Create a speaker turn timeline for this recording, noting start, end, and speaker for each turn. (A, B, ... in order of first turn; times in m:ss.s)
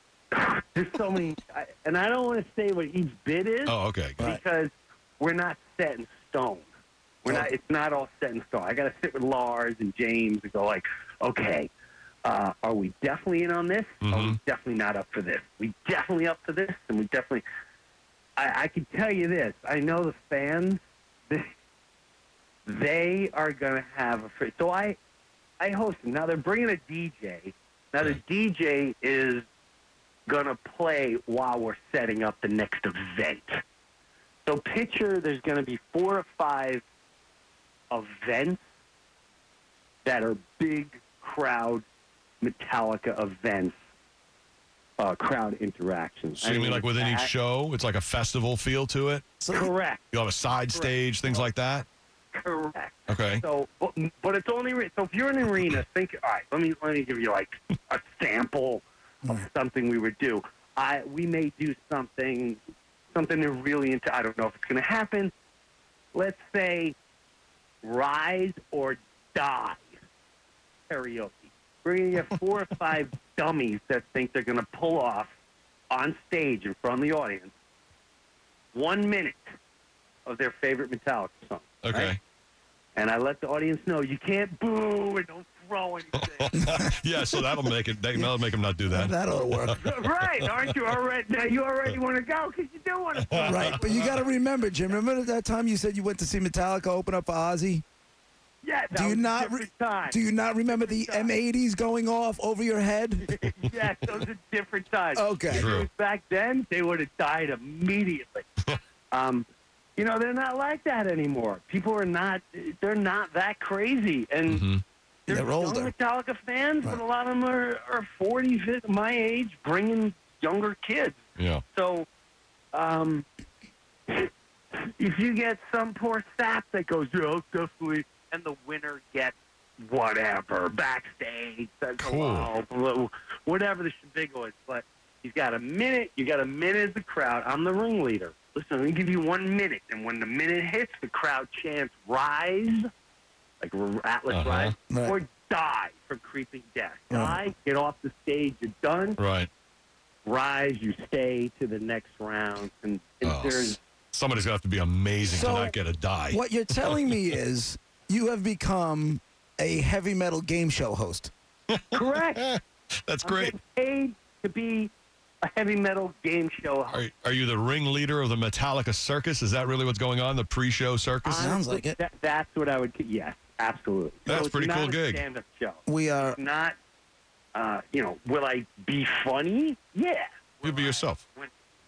0:00.3-0:06.7 A
0:03.7-0:04.2 B
0:07.2-0:11.7 A
0:12.2-0:17.4 A
0:14.0-0:14.4 B
0:18.4-0:21.5 A
0:22.6-0:25.0 A
0:25.6-0:29.4 A
0:30.3-0:33.6 A
0:34.4-0:36.8 A
0:37.9-0:38.6 A
0:40.0-0:41.8 A
0:42.4-0:43.8 A
0:45.0-0:47.3 A
0:46.4-0:49.2 B
0:49.4-0:49.7 C
0:49.5-0:50.0 A
0:50.1-0:51.8 B
0:50.6-0:51.5 A
0:52.3-1:02.6 A
0:53.1-0:53.4 B
1:03.1-1:05.3 A
1:06.1-1:06.9 A
1:07.8-1:09.9 A
1:10.9-1:15.3 A
1:15.9-1:17.5 A
1:18.7-1:19.5 A
1:20.2-1:22.2 A
1:21.8-1:22.2 B
1:23.0-1:26.8 A
1:26.4-1:29.8 B
1:26.6-1:26.8 C
1:28.9-1:29.8 C
1:29.8-1:34.3 A
1:33.3-1:33.8 B
1:33.4-1:37.8 C
1:38.6-1:41.3 A
1:38.9-1:43.4 C
1:43.2-1:48.4 A
1:45.2-1:45.7 C
1:45.5-1:45.9 B
1:49.1-1:49.4 A
1:50.0-1:54.6 A
1:54.5-1:54.8 B
1:55.3-2:01.2 A
1:55.3-1:55.9 C
2:01.4-2:01.6 B
2:01.7-2:02.1 A
2:02.7-2:03.2 A
2:04.1-2:22.9 A
2:12.0-2:12.5 B
2:23.6-2:29.2 A
2:24.3-2:24.7 B
2:24.9-2:25.2 C
2:27.1-2:27.4 C
2:29.2-2:29.5 B
2:30.2-2:33.8 A
2:33.2-2:37.1 B
2:35.2-2:35.7 C
2:36.3-2:41.3 C
2:41.7-2:43.5 B
2:41.9-2:42.5 A
2:43.2-2:47.0 A
2:46.9-2:51.5 B
2:51.2-2:52.0 C
2:51.2-2:56.8 A
2:54.3-2:55.2 B
2:55.9-2:56.4 C
2:57.5-3:01.5 A
3:00.6-3:01.2 B